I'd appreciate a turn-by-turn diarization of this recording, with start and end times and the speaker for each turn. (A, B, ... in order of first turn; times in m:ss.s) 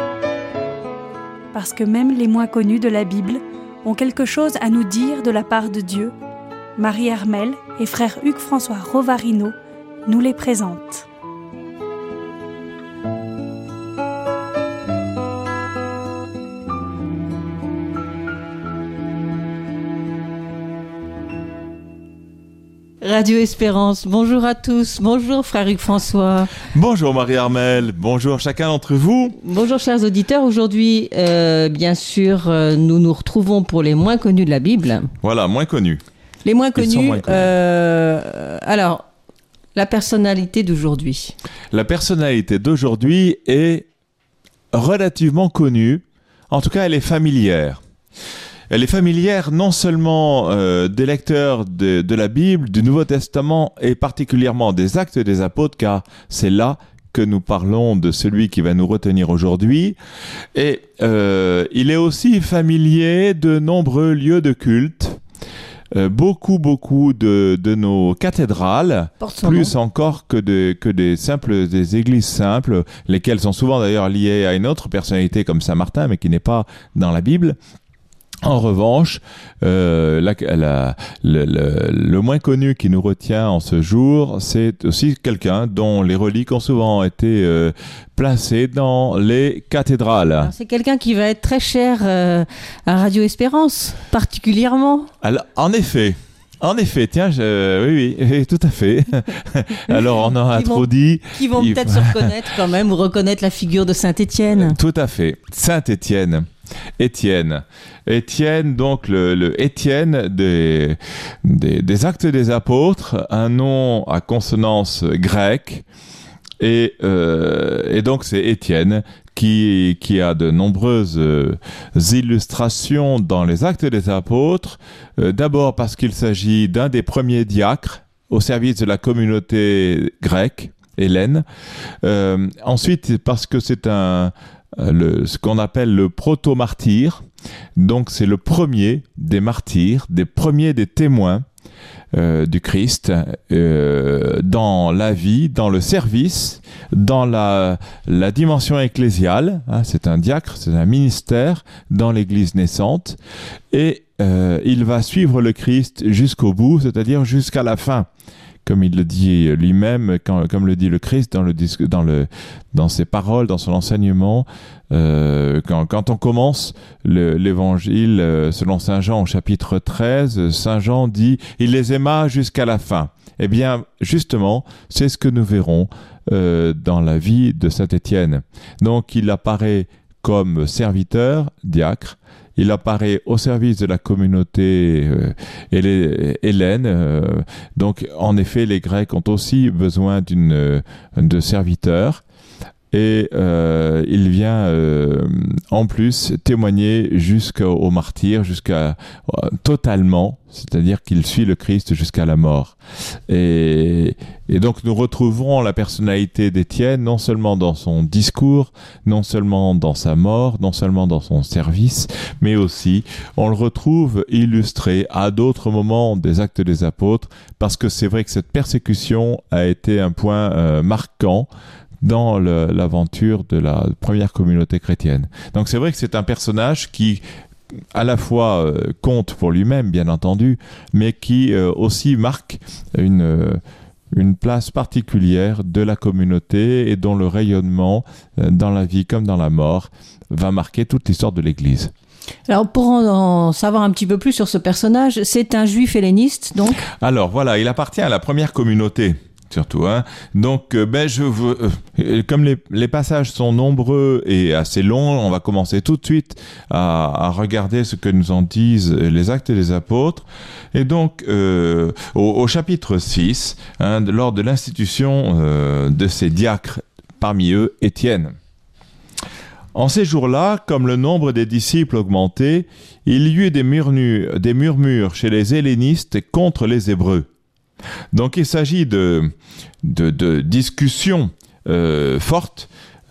0:01.5-0:06.1 A
0:06.8-0:11.1 A
0:23.0-0:26.5 B
0:26.7-0:29.4 C
0:29.4-0:35.1 B
0:35.2-0:36.0 C
0:36.4-0:39.1 B
0:36.7-0:37.5 C
0:39.7-0:41.3 B
0:41.7-0:43.9 C
0:44.7-0:47.8 C
0:48.7-1:00.0 C
1:00.5-1:05.2 C
1:05.9-1:17.6 C
1:09.2-1:09.7 B
1:18.4-1:30.5 C
1:30.4-1:35.1 B
1:35.2-1:42.3 C
1:40.5-1:44.8 B
1:44.5-1:46.5 C
1:47.0-1:55.8 C
1:56.6-2:11.4 C
2:12.0-2:17.2 C
2:17.8-2:21.4 C
2:22.1-2:33.2 C
2:33.7-2:38.1 C
2:38.6-3:12.2 C
3:12.9-3:22.8 C
3:23.3-3:41.5 C
3:42.0-3:47.2 C
3:47.9-3:53.6 C
3:54.1-4:01.9 C
4:02.5-4:06.8 B
4:07.0-4:28.3 C
4:29.7-4:37.3 C
4:38.1-4:42.7 C